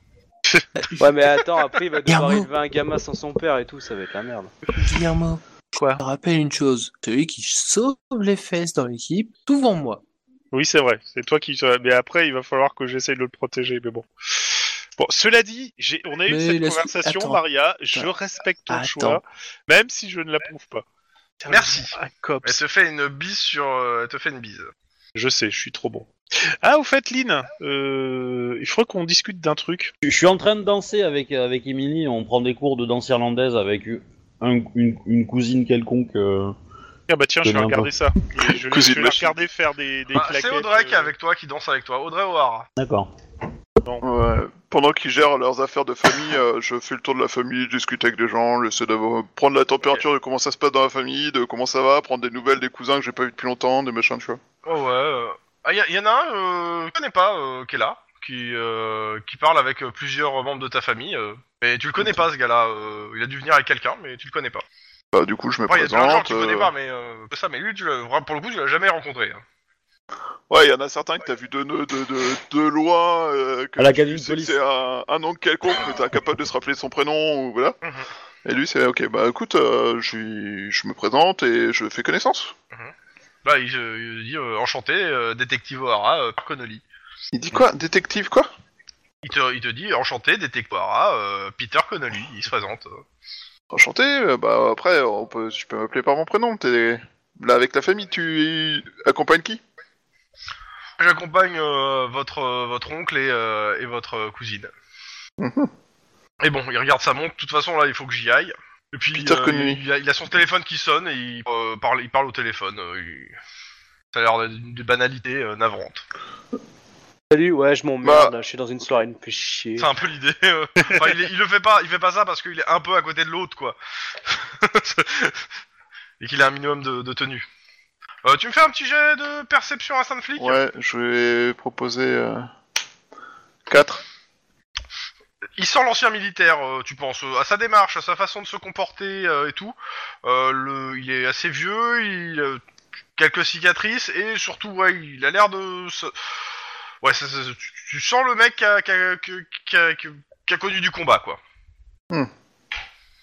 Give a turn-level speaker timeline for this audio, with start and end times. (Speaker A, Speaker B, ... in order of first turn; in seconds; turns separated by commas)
Speaker A: 0.8-1.1, Speaker B: 1.0-4.5, Speaker A: 2.1-2.5, Speaker A: 4.7-10.0, Speaker C: 5.8-6.0, Speaker C: 10.5-20.8, Speaker A: 16.3-17.4, Speaker A: 18.7-19.2, Speaker C: 21.4-22.6, Speaker D: 21.5-24.7, Speaker C: 25.1-26.1, Speaker C: 26.6-29.9, Speaker E: 30.0-36.5, Speaker C: 37.1-41.1, Speaker E: 37.4-37.9, Speaker F: 38.5-39.4, Speaker D: 40.1-42.7, Speaker E: 42.8-43.1, Speaker F: 44.0-54.4, Speaker D: 54.6-64.6, Speaker F: 65.1-66.7, Speaker D: 65.7-69.4, Speaker F: 70.5-77.8, Speaker E: 73.8-74.6, Speaker D: 77.8-78.1, Speaker F: 78.4-82.5, Speaker D: 83.4-86.8, Speaker F: 87.3-88.5, Speaker D: 89.2-93.0, Speaker F: 93.7-99.6, Speaker D: 101.0-104.7, Speaker F: 105.4-105.7, Speaker D: 106.4-113.4, Speaker F: 109.1-109.8, Speaker D: 114.1-116.0, Speaker B: 117.3-119.9, Speaker F: 118.0-118.3, Speaker D: 119.8-125.4, Speaker C: 120.8-121.0, Speaker D: 126.2-127.5, Speaker D: 128.2-130.6, Speaker F: 130.4-132.5, Speaker F: 133.7-134.0, Speaker D: 135.6-142.6, Speaker D: 143.2-146.1, Speaker D: 147.0-151.4